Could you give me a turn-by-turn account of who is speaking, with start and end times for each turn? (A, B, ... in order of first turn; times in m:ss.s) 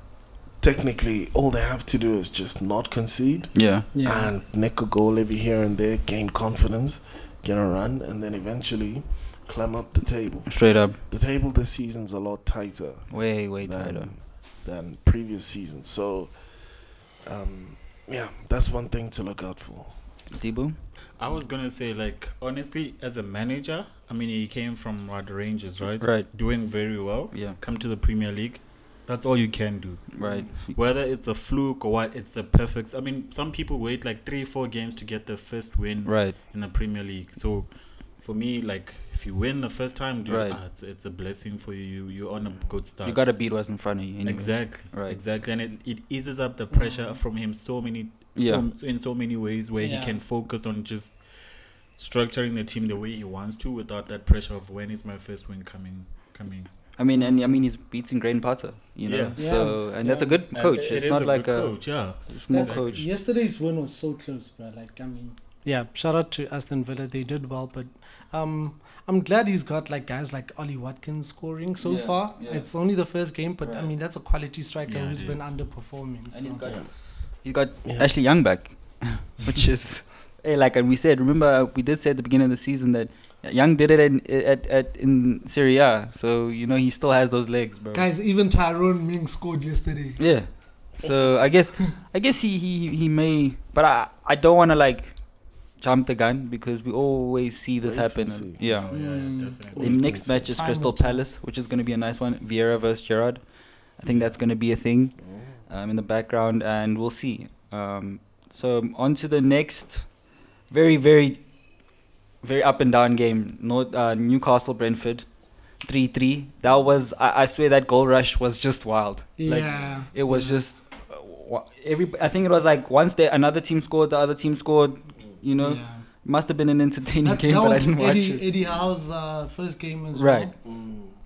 0:00.6-0:16.4 A
0:03.5-0:03.9 B
0:03.9-0:04.3 C
0:10.5-0:11.0 B
0:13.1-0:14.1 B
0:17.2-0:19.9 A
0:20.3-0:20.8 B
0:21.2-0:43.3 D
0:26.0-0:26.3 B
0:27.3-0:27.6 B
0:30.2-0:30.8 B
0:30.2-0:30.5 A
0:36.0-0:36.4 B
0:40.2-0:40.6 B
0:43.0-0:45.2 B
0:44.2-0:51.2 D
0:46.7-0:47.2 C
0:48.4-0:48.6 B
0:49.8-0:50.2 C
0:52.0-0:56.7 D
0:57.0-1:03.0 B
0:57.2-0:57.4 C
0:59.1-0:59.9 D
0:59.4-1:00.4 C
1:00.5-1:03.1 D
1:02.5-1:16.6 C
1:11.8-1:12.7 B
1:13.6-1:13.9 B
1:14.8-1:15.6 D
1:16.3-1:16.9 B
1:17.4-1:28.1 B
1:17.8-1:18.1 A
1:27.9-1:30.2 C
1:30.2-1:35.2 B
1:35.8-1:38.9 B
1:37.8-1:38.6 A
1:38.6-1:40.1 D
1:38.9-1:39.6 C
1:39.7-1:40.6 A
1:39.8-1:43.4 B
1:40.5-1:41.2 C
1:44.0-1:50.1 B
1:44.1-1:44.3 D
1:45.2-1:45.5 A
1:50.7-1:51.4 B
1:52.4-1:55.3 B
1:55.8-2:08.4 B
1:59.4-2:00.6 C
2:05.6-2:06.0 C
2:07.2-2:10.6 C
2:10.2-2:10.5 B
2:10.6-2:11.2 A